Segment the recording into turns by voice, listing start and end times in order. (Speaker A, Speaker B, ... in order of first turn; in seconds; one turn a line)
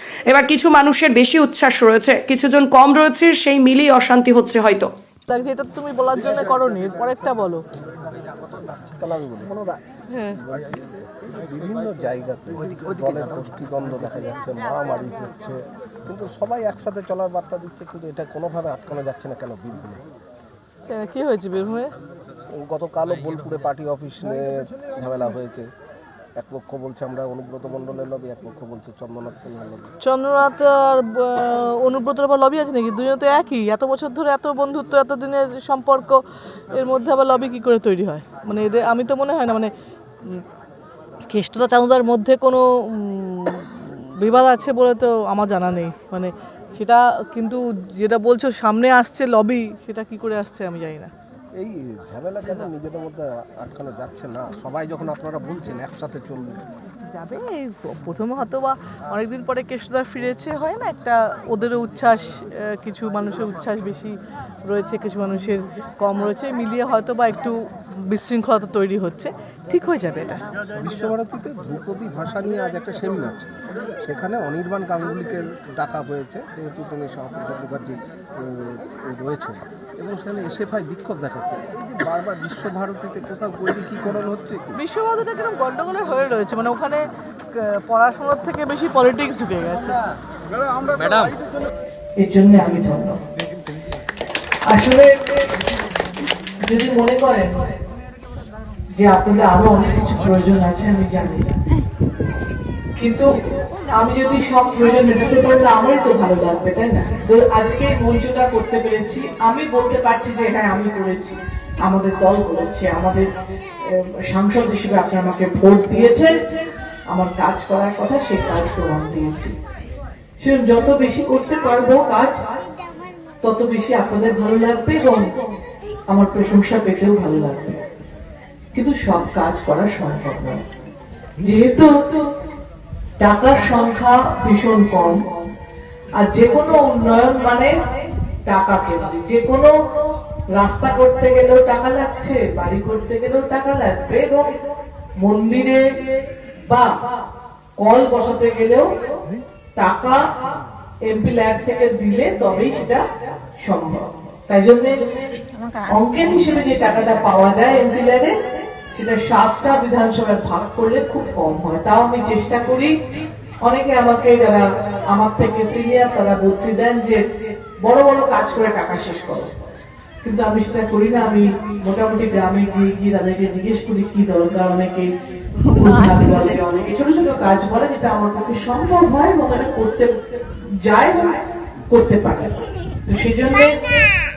Speaker A: 0.3-4.9
Speaker B: 5.3-7.6
Speaker C: 8.3-9.8
Speaker B: 10.1-10.3
Speaker C: 10.3-20.0
Speaker B: 20.9-21.9
Speaker C: 22.6-25.7
Speaker C: 26.4-29.9
Speaker B: 30.0-36.2
Speaker B: 36.7-39.7
Speaker B: 41.3-51.1
Speaker C: 51.6-56.6
Speaker B: 57.1-64.2
Speaker B: 64.7-67.5
Speaker B: 68.1-70.4
Speaker C: 70.7-84.8
Speaker B: 84.8-87.1
Speaker B: 87.6-89.9
Speaker C: 90.9-91.3
Speaker D: 92.2-93.2
Speaker D: 94.7-95.2
Speaker D: 96.6-97.5
Speaker D: 99.0-101.5
Speaker D: 103.0-103.4
Speaker D: 104.0-113.3
Speaker D: 114.0-116.4
Speaker D: 117.1-119.5
Speaker D: 120.4-122.3
Speaker D: 123.4-125.4
Speaker D: 126.1-127.8
Speaker D: 128.7-130.6
Speaker D: 131.4-132.0
Speaker D: 133.2-135.3
Speaker D: 136.2-137.8
Speaker D: 138.5-139.7
Speaker D: 140.5-144.6
Speaker D: 145.2-145.8
Speaker D: 147.8-148.9
Speaker D: 149.8-150.3
Speaker D: 151.0-153.0
Speaker D: 153.6-155.1
Speaker D: 155.9-158.3
Speaker D: 158.9-162.9
Speaker D: 163.6-169.5
Speaker D: 170.2-175.1
Speaker D: 175.6-180.2
Speaker D: 180.8-183.7